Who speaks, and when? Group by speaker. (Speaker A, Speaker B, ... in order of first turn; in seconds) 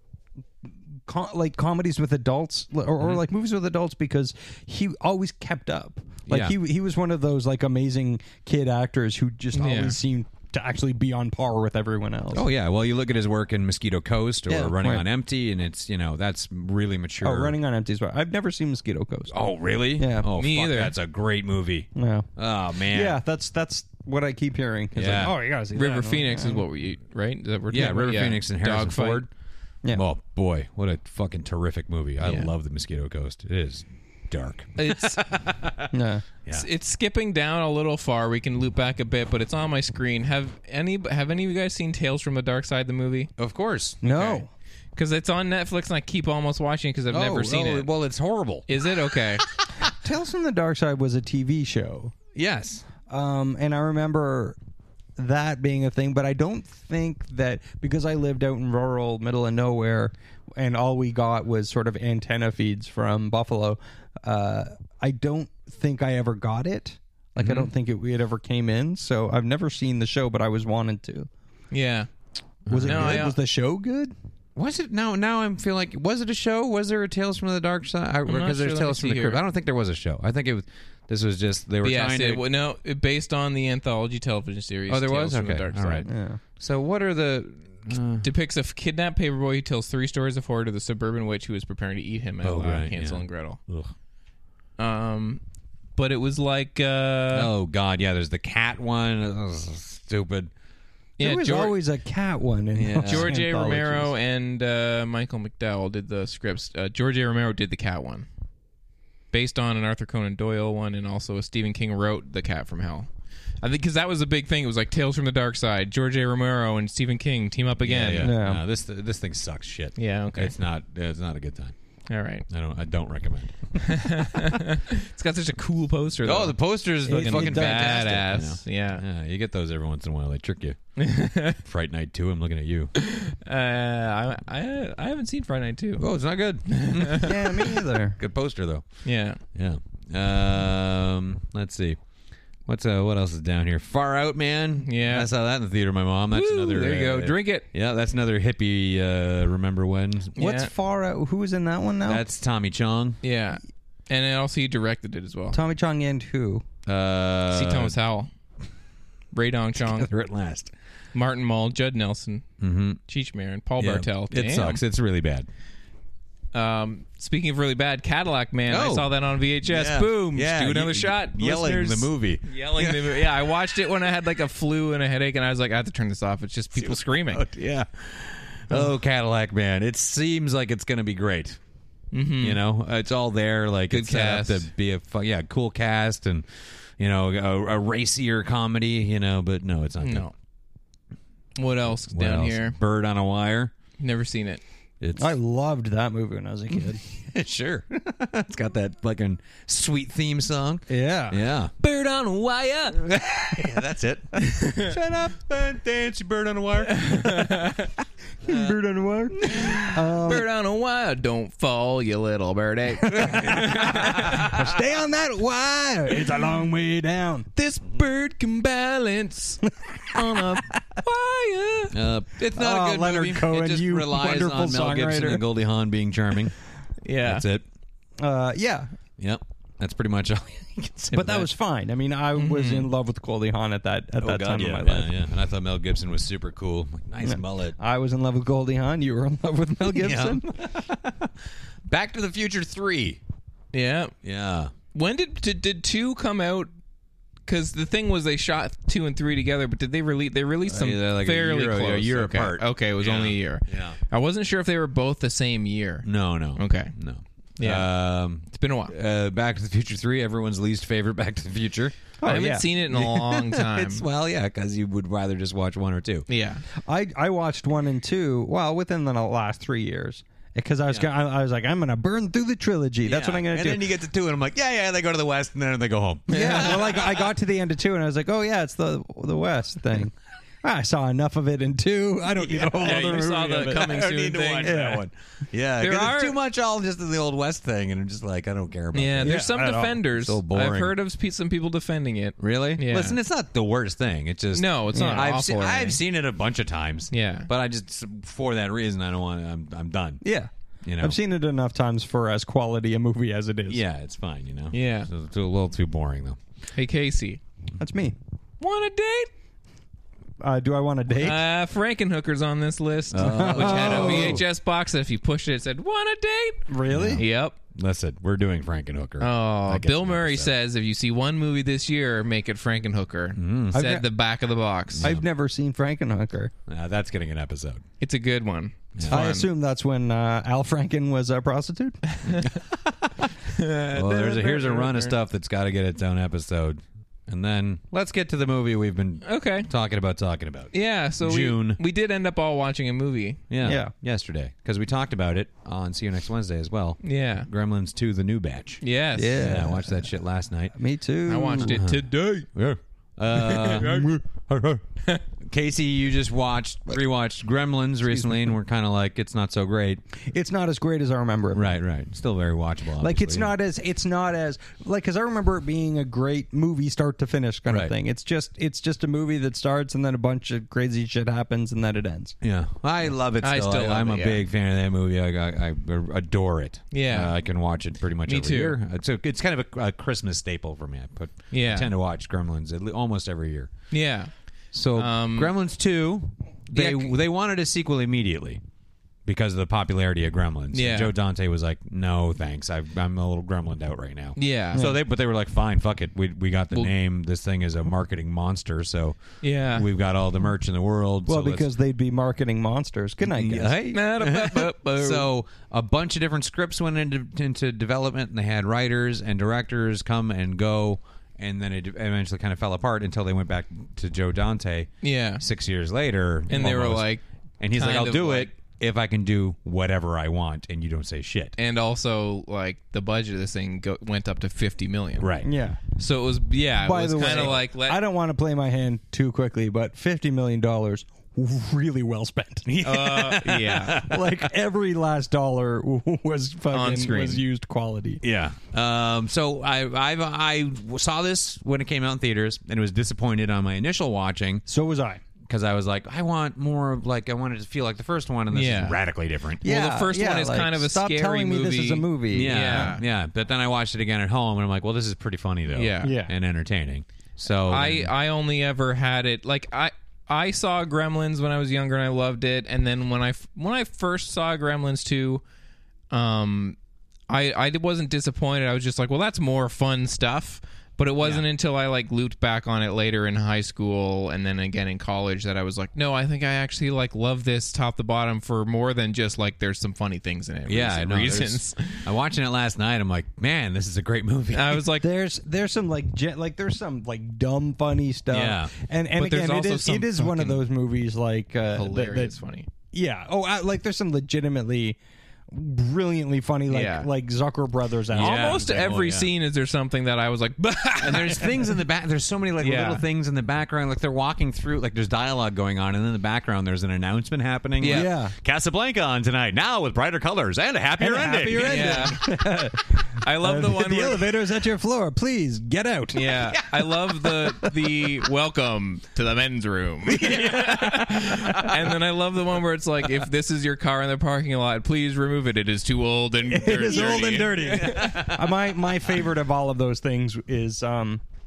Speaker A: 1.1-12.5, 14.5-15.1, 17.2-19.4, 20.0-20.3, 21.9-22.3, 22.8-26.6, 35.9-36.2, 44.0-44.5, 50.0-52.1, 53.1-54.6, 55.2-71.3, 72.7-74.1, 86.1-86.4, 101.2-104.1, 118.2-118.6, 127.1-128.1, 137.2-138.2, 150.4-152.2, 155.5-156.6, 195.2-197.0, 200.9-201.4, 208.4-210.5, 213.1-217.5, 222.5-225.4, 228.2-228.9, 231.1-235.1, 237.2-240.7, 262.2-262.7, 266.8-273.8, 276.3-283.9, 284.6-285.0, 289.2-290.0, 294.9-295.3, 300.2-303.8, 307.8-308.2, 310.4-311.4, 313.2-314.4, 316.7-317.2, 323.7-324.1, 325.0-326.5, 329.1-332.0, 343.6-343.9, 349.2-350.1, 350.7-351.8, 360.2-361.8, 363.0-372.4, 401.3-403.8, 425.4-425.9, 426.8-432.8, 433.9-438.2, 444.7-445.2, 449.6-452.9, 456.0-456.3, 485.0-492.4, 492.9-495.0, 495.5-498.8, 507.8-508.3, 511.0-516.5, 517.4-518.0, 520.2-521.7, 526.5-531.2
Speaker B: 6.3-6.5, 12.3-17.6, 19.3-23.2, 24.9-25.3, 27.7-29.3, 29.9-35.9, 43.4-44.4, 47.1-49.5, 52.4-52.9, 67.4-67.7, 72.7-73.3, 74.6-82.4, 84.9-88.3, 92.4-93.9, 97.3-100.5, 102.8-103.3, 117.8-121.8, 122.5-124.6, 126.2-130.8, 131.6-132.9, 136.0-138.8, 139.5-142.0, 142.7-150.4, 152.1-153.2, 156.9-158.0, 159.8-160.7, 162.6-163.0, 163.8-165.5, 168.7-173.5, 176.7-181.6, 182.4-190.3, 192.1-193.7, 195.0-195.4, 196.7-201.7, 203.0-207.6, 208.5-208.8, 209.5-209.7, 213.5-214.6, 221.9-226.5, 227.2-227.6, 229.2-231.5, 234.2-237.8, 239.9-241.3, 241.9-243.2, 244.2-244.7, 250.7-254.0, 256.0-262.1, 262.9-266.3, 273.1-277.3, 282.4-290.9, 292.4-300.2, 300.8-301.2, 303.7-306.4, 313.1-314.4, 316.9-320.5, 323.4-323.9, 324.9-325.2, 326.7-327.8, 332.3-333.3, 333.9-341.8, 343.5-348.8, 349.3-350.7, 351.6-354.8, 355.4-360.0, 361.5-363.5, 367.7-367.9, 372.4-383.7, 384.7-388.6, 389.2-399.2, 399.7-401.7, 403.2-421.6, 425.2-425.5, 427.2-427.6, 432.7-434.4, 438.2-444.6, 445.4-449.7, 452.3-458.1, 480.7-484.9, 488.3-488.7, 498.1-499.3, 501.0-512.1, 520.2-520.8, 526.8-528.6
Speaker C: 9.5-10.0, 20.3-20.9, 25.8-29.2, 32.2-32.5, 34.8-35.2, 36.5-43.3, 45.0-47.9, 48.7-49.4, 71.7-72.1, 72.8-73.4, 78.3-79.4, 81.8-86.1, 88.2-93.6, 94.8-95.4, 96.0-97.5, 101.2-101.8, 103.0-108.3, 109.3-113.1, 113.6-118.3, 120.0-120.5, 122.1-122.5, 123.8-129.0, 131.0-131.6, 133.0-136.1, 136.7-137.5, 139.1-139.4, 144.8-145.3, 146.3-147.7, 150.4-150.7, 153.2-155.6, 157.5-158.3, 159.3-160.1, 161.1-162.5, 163.1-164.8, 166.5-177.5, 182.1-182.6, 183.9-184.7, 190.0-190.3, 191.6-192.8, 194.0-194.6, 201.8-203.0, 204.5-205.0, 206.9-207.9, 209.5-214.3, 217.6-222.0, 227.0-227.4, 232.3-232.9, 243.7-244.1, 244.9-246.7, 247.5-256.9, 257.6-258.9, 262.2-264.1, 266.3-266.6, 276.3-276.9, 282.8-284.8, 285.8-286.4, 288.9-293.2, 294.5-296.0, 297.1-297.5, 304.7-305.1, 306.8-307.4, 308.6-309.3, 311.1-317.6, 319.2-325.1, 328.0-329.5, 332.2-332.5, 333.5-335.1, 339.2-339.7, 340.7-343.4, 347.0-347.5, 348.8-349.6, 351.3-352.5, 353.3-354.2, 373.4-374.4, 376.9-377.3, 378.3-378.8, 381.5-381.9, 383.9-384.3, 384.9-385.5, 386.7-387.1, 390.7-391.1, 394.4-394.9, 399.4-399.9, 403.9-405.3, 415.0-415.4, 416.5-418.5, 421.6-428.0, 432.8-434.0, 436.7-437.4, 448.5-449.0, 449.6-453.0, 455.7-456.1, 457.7-465.4, 466.1-466.8, 467.3-482.0, 484.5-485.1, 489.2-490.6, 491.7-492.7, 496.7-497.1, 498.1-501.8, 502.6-503.0, 507.8-508.1, 511.6-512.3, 513.2-514.4, 516.1-528.2